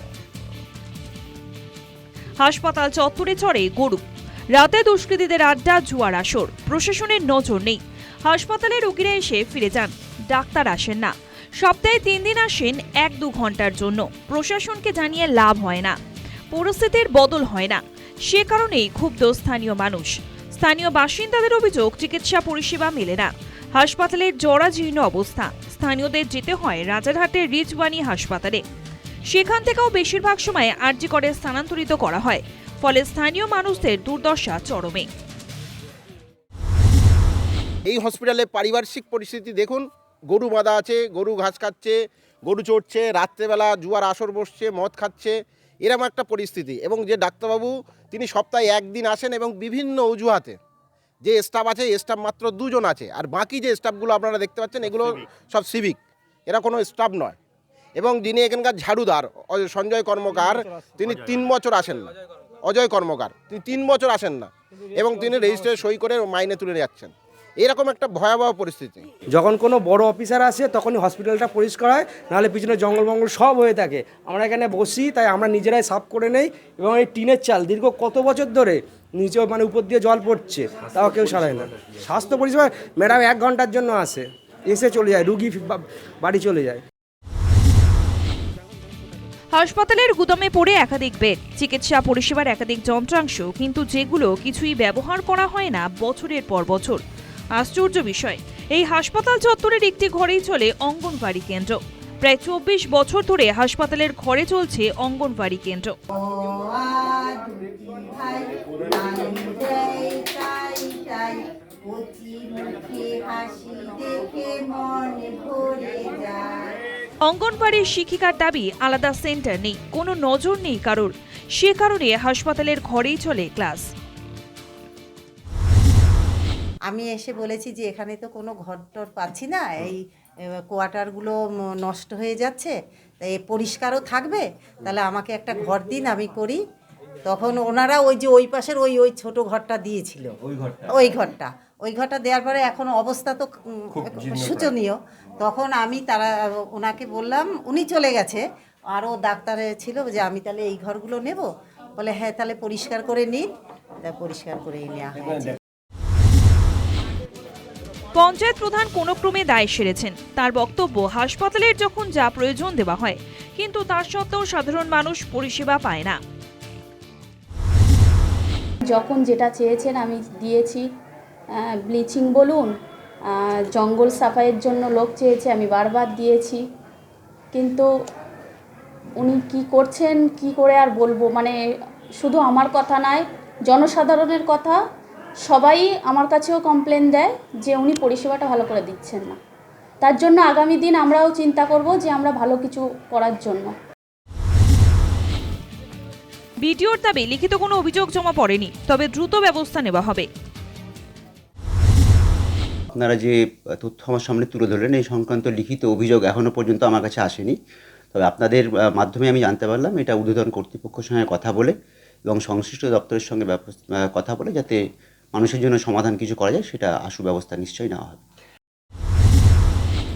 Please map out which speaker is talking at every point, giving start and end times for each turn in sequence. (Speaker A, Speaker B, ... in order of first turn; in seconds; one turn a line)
Speaker A: 2.4-16.0
Speaker A: 16.5-28.6
Speaker A: 29.3-35.1
Speaker B: 37.9-50.6
Speaker B: 51.2-57.4
Speaker B: 58.0-62.1
Speaker B: 62.6-69.1
Speaker C: 69.3-86.8
Speaker A: 89.5-97.0
Speaker A: 97.6-106.0
Speaker D: 106.1-116.8
Speaker A: 117.2-123.9
Speaker D: 126.9-130.0
Speaker D: 130.7-136.6
Speaker D: 137.3-153.5
Speaker D: 154.0-155.6
Speaker A: 158.2-166.2
Speaker E: 168.8-170.8
Speaker E: 171.6-172.7
Speaker E: 173.3-176.6
Speaker E: 177.5-177.9
Speaker E: 179.2-181.6
Speaker E: 182.2-184.8
Speaker E: 185.5-189.4
Speaker E: 190.0-193.7
Speaker A: 196.6-200.3
Speaker F: 202.9-207.6
Speaker F: 208.1-211.8
Speaker F: 212.3-214.8
Speaker F: 215.3-218.2